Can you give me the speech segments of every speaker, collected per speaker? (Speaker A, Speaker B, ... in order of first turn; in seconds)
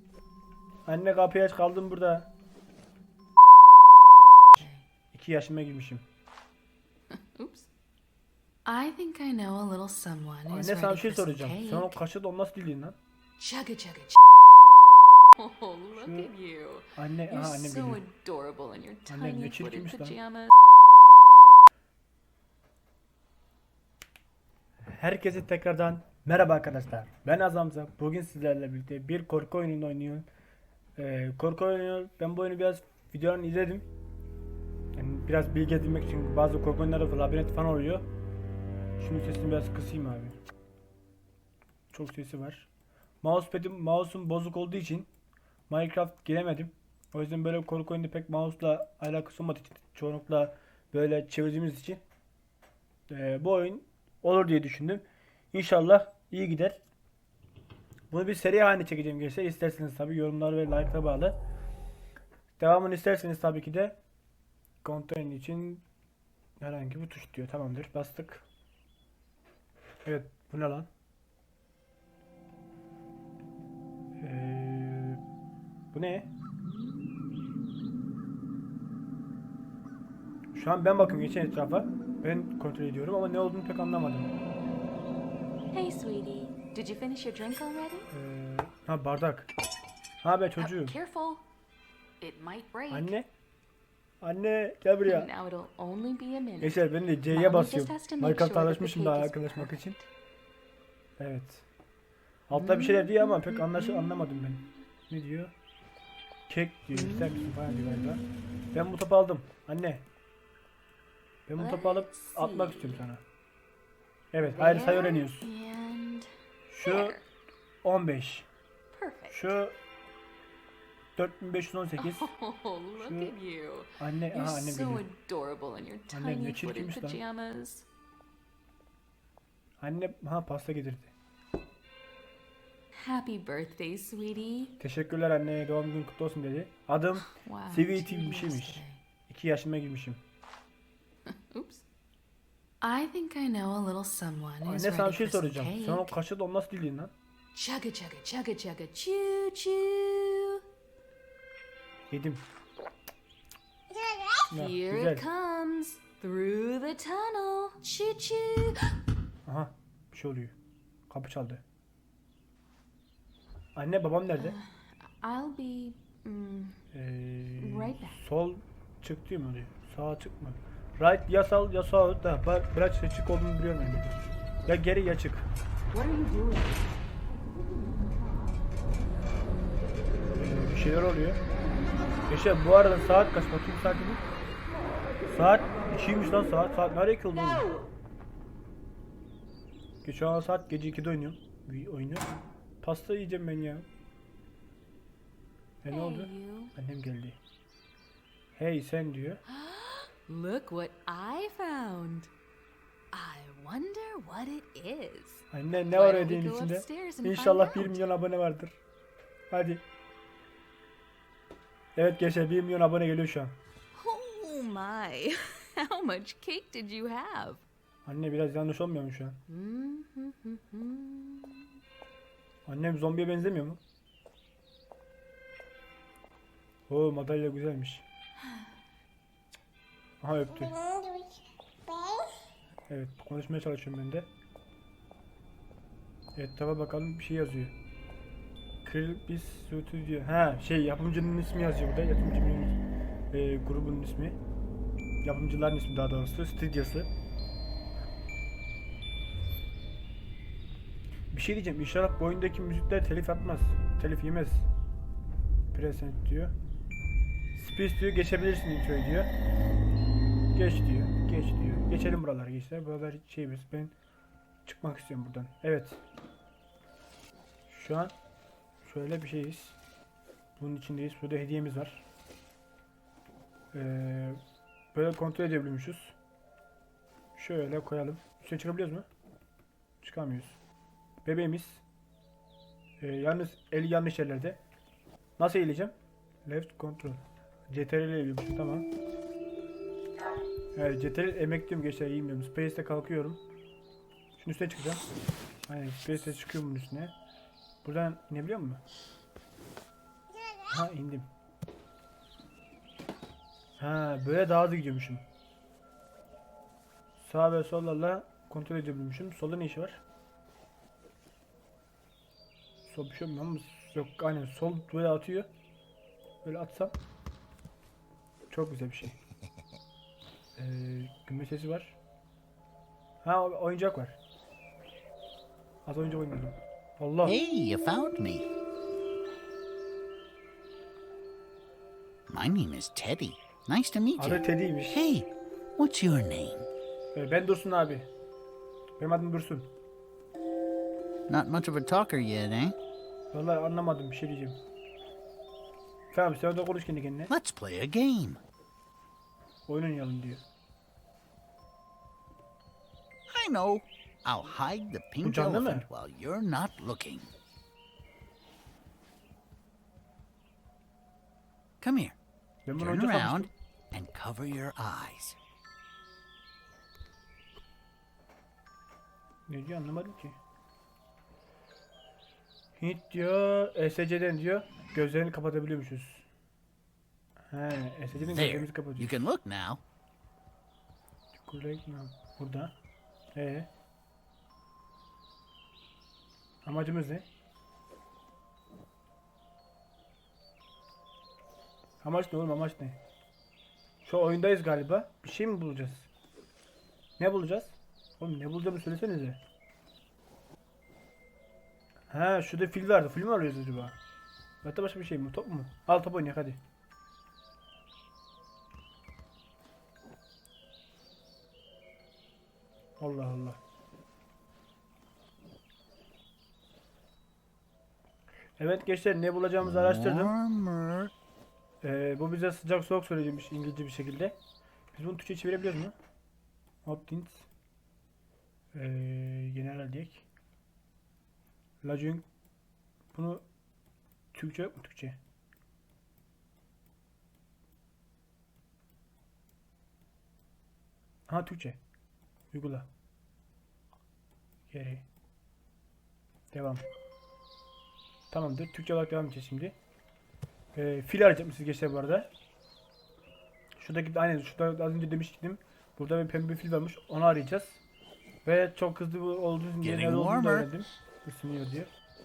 Speaker A: 0.8-2.3, 5.1-6.0, 10.5-12.9, 15.9-16.3, 16.9-18.0, 19.1-20.2, 24.9-30.3, 31.0-33.9, 35.0-38.0, 39.0-40.4, 41.9-42.7, 43.2-45.1, 45.7-52.0, 53.1-56.8, 58.1-61.4, 62.6-64.0, 64.8-65.8, 66.6-68.4, 70.0-70.9, 74.2-75.2, 75.9-76.3, 80.5-84.3, 88.1-89.5, 90.2-91.0, 92.9-93.3, 94.2-95.3, 96.6-100.0, 101.2-101.6, 102.5-105.5, 106.5-110.0, 111.5-113.2, 114.3-115.5, 116.7-117.2, 117.8-118.5, 119.3-119.8, 121.2-122.3, 123.0-123.3, 124.0-125.0, 126.1-127.2, 129.8-131.1, 134.8-140.2, 144.6-147.1, 152.1-152.4, 154.5-155.2, 159.4-160.5, 161.1-161.6, 163.8-164.5, 166.9-175.5, 180.3-181.4, 182.3-184.2, 185.3-187.7, 190.0-192.3, 192.8-193.8, 195.8-197.4, 198.6-199.4, 205.5-208.8, 209.5-209.8, 211.9-213.5, 218.1-219.4, 222.7-223.8, 226.9-228.0, 230.2-230.8, 232.9-234.3, 236.3-237.7, 238.8-242.8, 243.3-244.4, 245.2-247.1, 251.3-254.7, 255.7-256.5, 257.6-259.3, 260.5-263.9, 264.6-266.0, 267.7-268.1, 268.8-269.7, 270.6-272.0, 273.7-274.4, 274.9-276.1, 277.4-279.1, 280.0-280.6, 281.2-281.8, 283.0-284.6, 285.4-285.9, 286.4-288.9, 290.7-293.4, 294.4-295.0, 295.7-297.1, 297.8-298.8, 300.7-301.3, 303.8-305.2, 307.2-310.0, 312.9-315.5, 316.4-316.9, 318.5-319.2, 320.6-321.9, 323.2-324.2, 325.9-327.4, 334.2-335.0, 337.1-338.1, 339.0-339.7, 343.3-344.6, 346.1-347.3, 349.7-350.4, 355.2-355.9, 362.6-363.5, 369.5-370.4, 372.8-376.2, 377.5-379.1, 381.4-382.7, 383.3-383.7, 386.6-387.2, 392.0-393.0, 394.0-396.1, 397.2-399.4, 402.1-403.9, 404.6-406.6, 413.0-413.6, 418.6-420.3, 421.8-424.4, 424.9-425.9, 426.8-427.5, 428.7-430.2, 431.8-432.2, 433.1-433.4, 434.3-435.2, 441.3-441.8, 442.5-442.9, 444.7-445.0, 446.5-446.8, 448.3-449.7, 450.7-452.3, 453.8-457.8, 458.4-461.9
Speaker B: 4.5-4.8, 7.1-7.7, 8.7-12.0, 13.4-14.2, 15.3-20.5, 85.7-88.1, 90.6-91.4, 92.2-93.1, 95.0-99.7, 102.6-104.1, 111.6-113.1, 114.4-117.2, 118.9-119.6, 122.0-127.9, 132.9-134.8, 137.2-139.0, 141.3-141.8, 142.8-146.2, 147.5-150.6, 154.4-158.9, 164.3-166.8, 167.6-168.2, 175.9-176.7, 195.9-196.7, 199.4-202.3, 203.1-208.1, 213.9-217.6, 219.5-221.7
Speaker C: 327.2-328.5, 332.3-336.7, 341.3-342.8, 347.3-348.4, 353.3-357.3, 361.8-362.2, 362.8-365.4, 378.3-379.8, 419.6-421.1, 459.8-460.7